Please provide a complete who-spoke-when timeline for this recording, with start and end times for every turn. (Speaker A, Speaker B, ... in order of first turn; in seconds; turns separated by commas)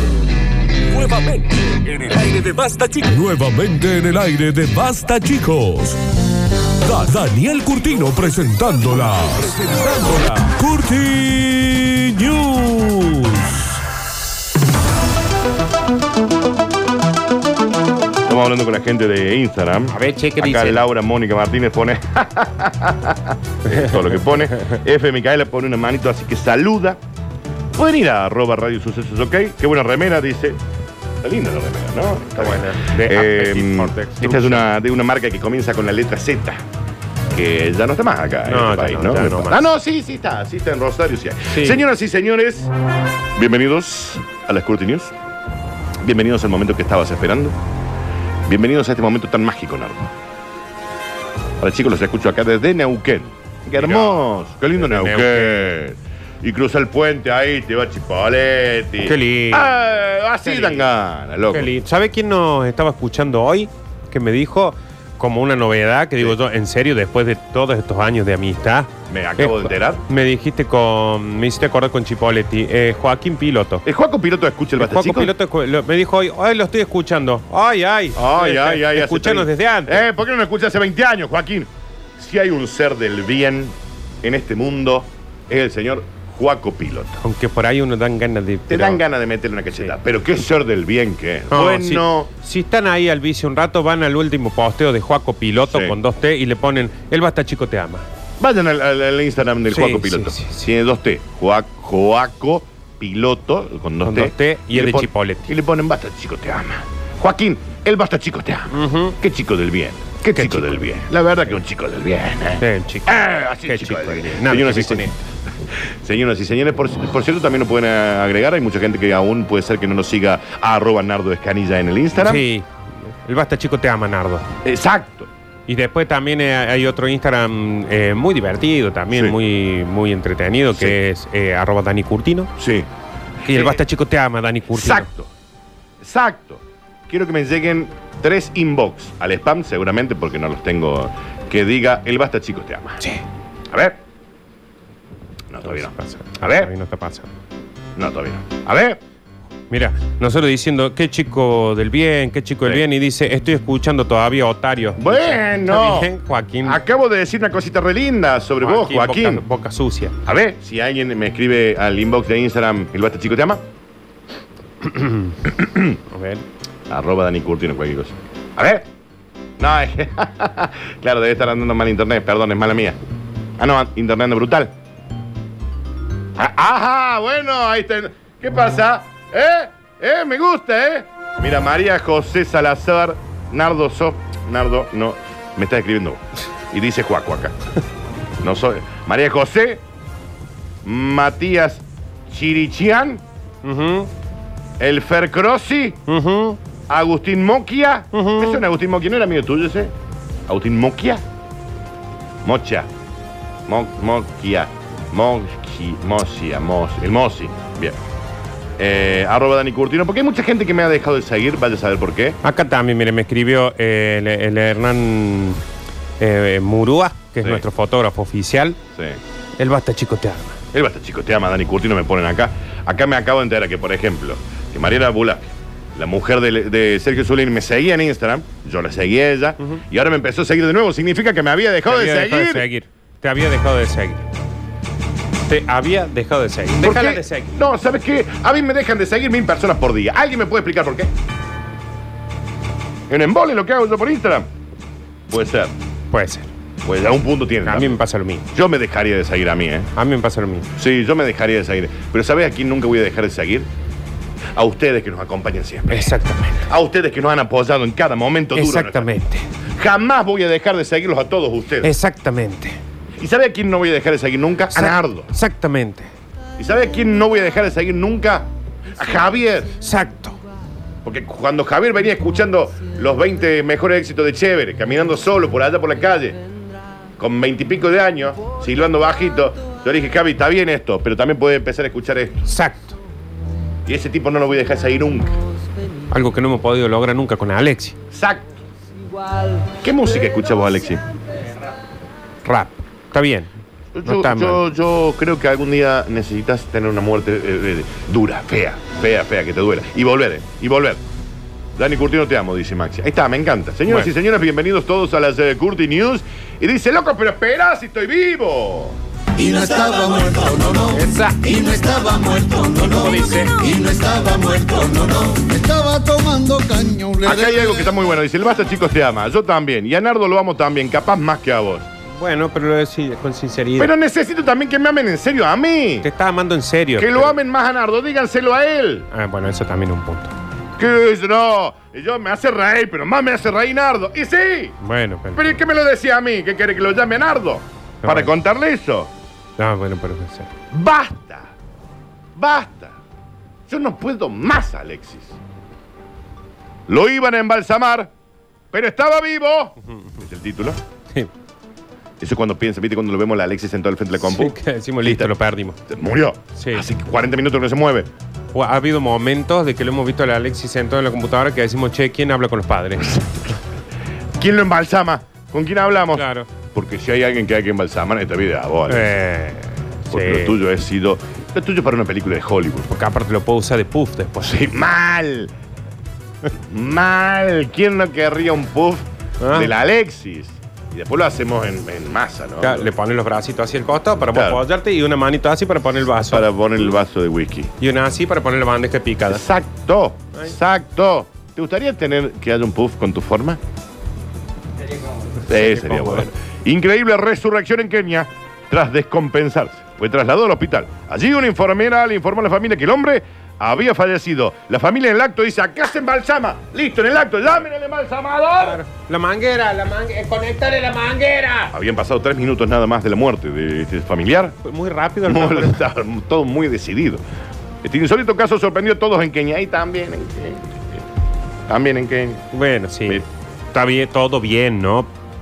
Speaker A: 0.9-6.0, Speaker A: 6.8-13.8, Speaker B: 18.3-27.0, Speaker C: 19.9-20.8, Speaker C: 23.7-24.0, Speaker B: 27.8-30.6, Speaker B: 31.2-36.6, Speaker C: 32.4-34.7, Speaker B: 37.3-42.7, Speaker C: 38.5-39.6, Speaker C: 41.5-41.8, Speaker B: 43.4-45.1, Speaker B: 46.0-47.6, Speaker B: 48.5-50.1, Speaker B: 51.6-61.7, Speaker C: 53.8-55.7, Speaker C: 59.0-59.7, Speaker C: 60.5-60.8, Speaker C: 61.5-73.8, Speaker B: 69.1-70.0, Speaker B: 73.8-75.3, Speaker C: 74.8-80.0, Speaker B: 78.2-87.2, Speaker C: 87.2-89.0, Speaker B: 88.7-92.3, Speaker C: 91.5-98.0, Speaker B: 95.7-96.0, Speaker B: 98.4-122.4, Speaker C: 99.7-100.7, Speaker C: 104.0-105.5, Speaker C: 108.7-109.2, Speaker C: 110.3-110.8, Speaker C: 112.6-115.1, Speaker C: 122.2-124.5, Speaker B: 124.6-125.3, Speaker C: 125.7-132.5, Speaker B: 132.6-132.9, Speaker C: 133.4-135.1, Speaker B: 133.5-133.8, Speaker B: 134.7-135.3, Speaker B: 136.0-143.0, Speaker B: 143.7-144.0, Speaker B: 145.5-146.7, Speaker C: 145.6-147.3, Speaker B: 148.0-149.0, Speaker C: 149.7-156.8, Speaker B: 155.0-156.1, Speaker B: 156.6-159.4, Speaker C: 158.6-160.2, Speaker B: 160.2-163.6, Speaker C: 164.8-165.5, Speaker B: 165.4-166.0, Speaker C: 166.1-166.4, Speaker B: 166.9-168.9, Speaker B: 169.6-173.0, Speaker B: 173.6-174.7, Speaker B: 176.4-187.6, Speaker B: 188.4-189.8, Speaker B: 190.8-193.2, Speaker C: 193.6-194.1, Speaker B: 194.8-196.0, Speaker C: 196.1-196.6, Speaker B: 196.9-199.9, Speaker C: 198.1-198.6, Speaker B: 200.5-201.2, Speaker B: 202.4-202.9, Speaker B: 203.7-208.0, Speaker B: 208.8-212.4, Speaker C: 212.4-215.6, Speaker C: 216.2-218.8, Speaker C: 219.6-220.6, Speaker B: 220.7-232.7, Speaker C: 231.9-234.3, Speaker C: 235.4-237.6, Speaker B: 236.8-241.1, Speaker B: 243.1-244.5, Speaker B: 245.3-245.7, Speaker C: 246.1-246.5, Speaker B: 246.8-248.0, Speaker C: 247.7-248.5, Speaker B: 248.5-249.9, Speaker C: 250.0-250.7, Speaker B: 250.8-253.7, Speaker B: 254.6-256.1, Speaker C: 255.9-256.7, Speaker B: 256.7-259.1, Speaker C: 258.6-259.5, Speaker B: 259.8-261.9, Speaker C: 261.8-262.8, Speaker B: 263.2-265.3, Speaker C: 264.7-266.1, Speaker B: 266.6-269.8, Speaker C: 269.8-270.4, Speaker B: 271.0-276.4, Speaker B: 277.2-282.4, Speaker C: 282.4-283.0, Speaker B: 283.9-285.4, Speaker C: 286.1-288.0, Speaker B: 288.1-288.5, Speaker B: 289.8-291.0, Speaker C: 292.4-293.5, Speaker B: 293.9-301.0, Speaker C: 294.0-294.6, Speaker B: 301.8-309.0, Speaker D: 309.4-317.9, Speaker C: 310.9-311.4, Speaker C: 312.9-313.5, Speaker B: 317.2-321.9, Speaker C: 322.1-323.9, Speaker B: 323.8-326.1, Speaker C: 326.0-327.4, Speaker B: 327.0-329.1, Speaker C: 329.1-330.3, Speaker B: 330.8-334.8, Speaker C: 334.8-335.4, Speaker B: 335.4-339.1, Speaker C: 338.0-338.3, Speaker C: 339.6-340.5, Speaker B: 340.7-341.5, Speaker B: 342.4-343.0, Speaker B: 343.7-345.4, Speaker B: 346.9-348.1, Speaker B: 348.7-350.8, Speaker B: 352.2-355.3, Speaker C: 354.2-355.8, Speaker B: 355.9-358.1, Speaker C: 356.6-356.9, Speaker C: 358.5-363.4, Speaker B: 364.4-369.2, Speaker C: 366.2-366.5, Speaker C: 368.9-370.6, Speaker B: 370.1-372.9, Speaker C: 372.9-374.7, Speaker B: 374.4-375.5, Speaker B: 376.6-382.9, Speaker C: 379.4-379.7, Speaker C: 382.6-386.5, Speaker B: 384.3-384.6, Speaker B: 386.3-387.7, Speaker C: 387.8-389.5, Speaker B: 389.3-393.6, Speaker B: 395.5-408.8, Speaker C: 395.5-396.3, Speaker C: 408.6-411.7, Speaker B: 411.7-414.6, Speaker C: 414.6-415.8, Speaker B: 415.2-417.2, Speaker B: 417.8-421.0, Speaker B: 421.7-422.5, Speaker C: 422.5-425.1